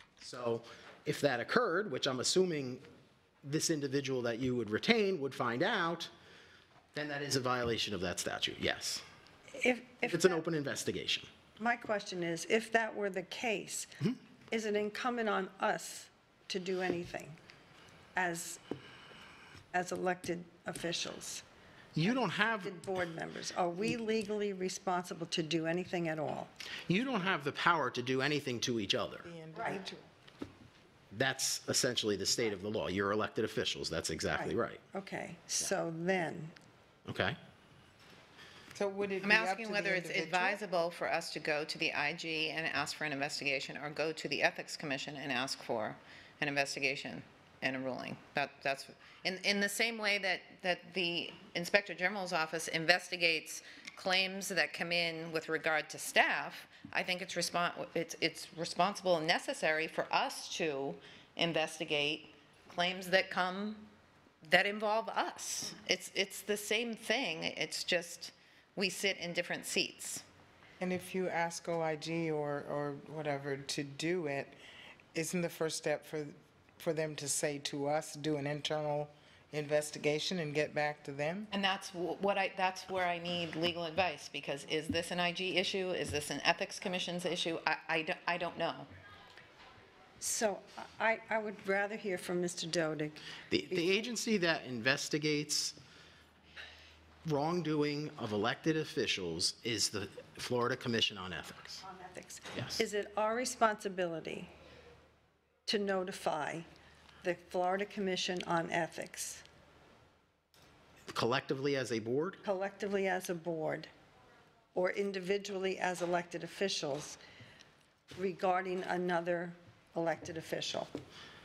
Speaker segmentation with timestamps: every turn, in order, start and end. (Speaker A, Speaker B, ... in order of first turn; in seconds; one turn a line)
Speaker A: 0.2-2.8
Speaker A: 3.4-6.1
Speaker A: 6.9-9.0
Speaker B: 9.5-10.4
Speaker A: 10.0-11.3
Speaker B: 11.6-17.4
Speaker B: 18.1-18.6
Speaker B: 19.7-21.4
Speaker A: 21.9-22.8
Speaker B: 22.0-26.5
Speaker A: 26.9-29.3
Speaker C: 29.2-30.1
Speaker B: 29.6-29.8
Speaker A: 31.1-34.8
Speaker B: 34.3-36.5
Speaker A: 37.1-37.4
Speaker C: 38.8-40.6
Speaker D: 39.2-63.9
Speaker D: 64.4-70.2
Speaker C: 70.8-74.5
Speaker C: 75.1-81.5
Speaker D: 81.5-88.9
Speaker B: 90.2-94.0
Speaker A: 93.5-95.8
Speaker A: 97.2-101.8
Speaker B: 101.8-104.5
Speaker A: 102.5-102.8
Speaker B: 105.7-106.7
Speaker B: 107.2-109.4
Speaker A: 111.1-112.4
Speaker B: 112.4-113.9
Speaker B: 114.8-117.2
Speaker B: 118.2-120.9